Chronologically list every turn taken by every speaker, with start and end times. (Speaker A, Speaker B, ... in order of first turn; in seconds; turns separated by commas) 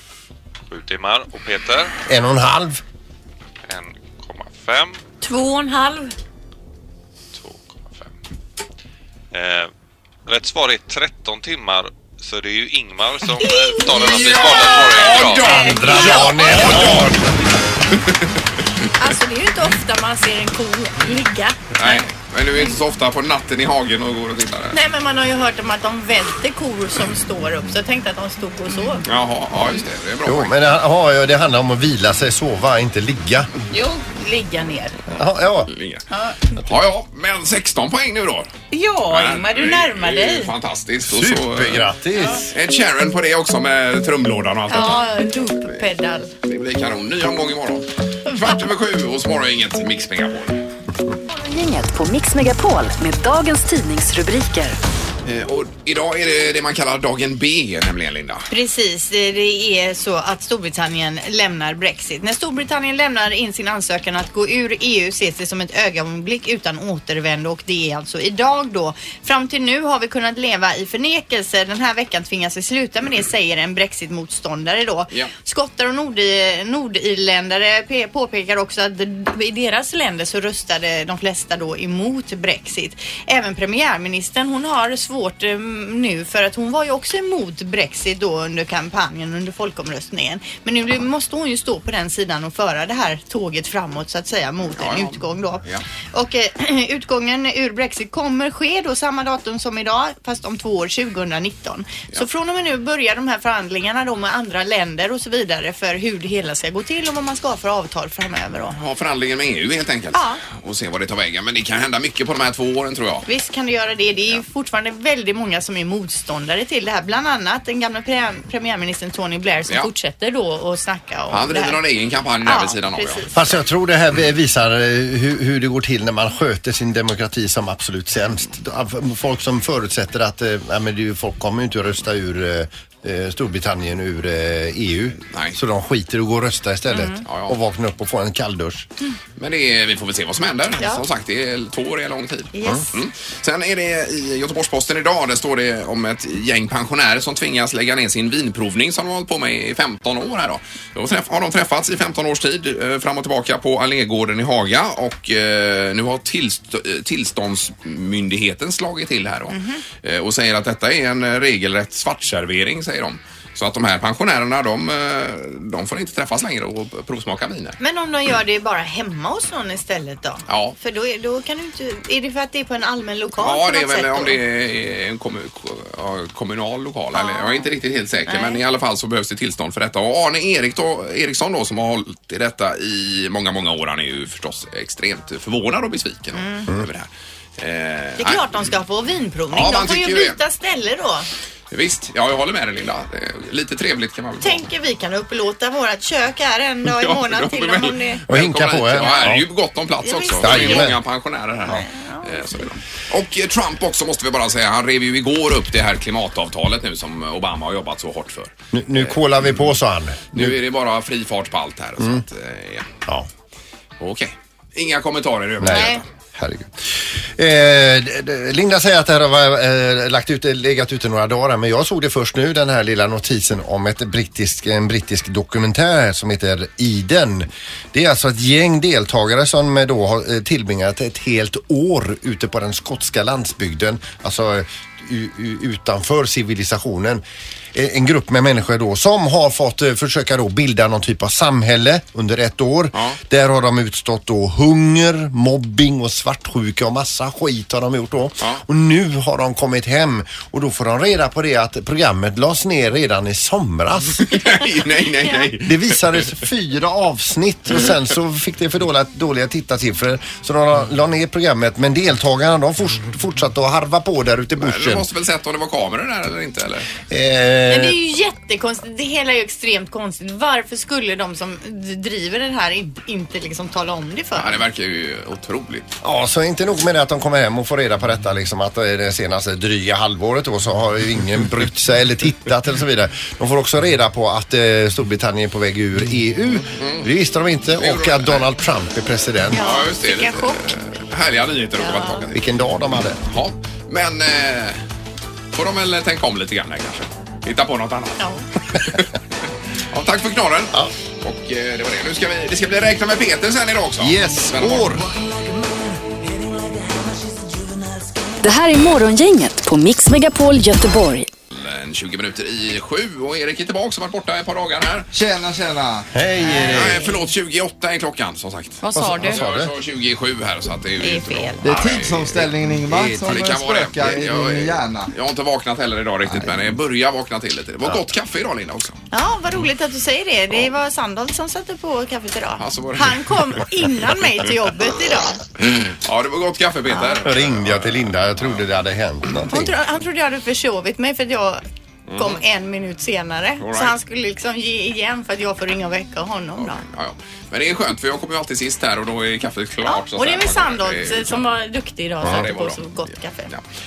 Speaker A: 0.7-2.0, Speaker B: 2.1-2.8, Speaker A: 3.7-5.0, Speaker C: 5.2-6.1, Speaker A: 7.3-8.1, Speaker A: 9.3-9.7, Speaker A: 10.3-15.5, Speaker D: 13.9-17.2, Speaker E: 14.2-14.5, Speaker E: 15.2-16.5, Speaker B: 15.5-17.3, Speaker C: 15.9-16.8, Speaker D: 17.9-18.3, Speaker C: 19.0-22.1, Speaker D: 21.8-24.8, Speaker C: 24.7-29.1, Speaker D: 29.0-30.6, Speaker B: 30.3-33.5, Speaker E: 33.7-35.0, Speaker B: 35.1-35.7, Speaker D: 35.1-36.0, Speaker D: 36.5-38.5, Speaker E: 38.7-40.5, Speaker D: 39.1-41.9, Speaker B: 41.0-42.5, Speaker D: 42.5-45.1, Speaker C: 44.7-46.3, Speaker D: 46.4-50.7, Speaker F: 51.3-54.8, Speaker D: 55.2-58.5, Speaker C: 58.5-95.6, Speaker D: 94.8-95.8, Speaker C: 96.1-108.8, Speaker D: 108.7-113.3, Speaker C: 110.1-110.4, Speaker C: 113.2-121.8, Speaker D: 121.3-123.3, Speaker C: 122.4-123.5, Speaker B: 123.3-138.9, Speaker D: 135.3-135.6, Speaker C: 136.9-137.3, Speaker D: 137.3-137.6, Speaker D: 139.4-167.8, Speaker C: 142.5-142.9, Speaker C: 159.5-159.8, Speaker C: 167.8-174.4, Speaker D: 170.5-170.8, Speaker D: 173.4-188.5, Speaker C: 177.1-177.7, Speaker C: 178.3-178.6, Speaker C: 186.3-186.7, Speaker C: 188.2-191.3, Speaker D: 189.5-190.4, Speaker D: 191.7-194.7, Speaker C: 194.4-198.2, Speaker D: 196.9-209.7, Speaker B: 198.3-199.5, Speaker C: 199.0-199.3, Speaker C: 200.0-200.9, Speaker B: 200.4-201.0, Speaker C: 201.7-202.6, Speaker B: 208.7-210.6, Speaker D: 210.3-212.9, Speaker D: 214.0-216.1, Speaker B: 215.6-237.2, Speaker C: 215.7-216.0, Speaker B: 237.7-254.3, Speaker D: 242.9-243.2, Speaker D: 254.2-256.3, Speaker B: 255.6-265.1, Speaker D: 264.6-266.9, Speaker B: 267.1-268.0, Speaker C: 267.7-274.6, Speaker D: 274.4-275.9, Speaker B: 276.0-289.7, Speaker D: 286.7-287.1, Speaker D: 287.8-288.6, Speaker C: 289.5-290.6, Speaker D: 289.5-292.4, Speaker C: 291.8-292.2, Speaker B: 292.3-293.2, Speaker D: 293.3-294.8, Speaker D: 295.5-298.2, Speaker D: 298.7-299.1, Speaker D: 299.9-305.1, Speaker B: 304.0-305.1, Speaker F: 308.4-311.3, Speaker D: 311.5-315.1, Speaker G: 315.1-316.1, Speaker B: 316.1-317.1, Speaker C: 316.4-317.1, Speaker D: 316.7-322.5, Speaker C: 318.8-319.4, Speaker B: 318.9-319.7, Speaker C: 321.0-321.7, Speaker G: 321.6-325.1, Speaker B: 322.9-323.4, Speaker D: 323.3-329.0, Speaker C: 329.1-335.4, Speaker D: 332.6-333.6, Speaker D: 335.6-338.6, Speaker B: 337.2-339.8, Speaker C: 339.5-341.6, Speaker D: 342.1-342.4, Speaker C: 342.2-346.8, Speaker D: 343.6-344.0, Speaker D: 346.6-351.5, Speaker C: 349.9-353.5, Speaker D: 352.2-352.9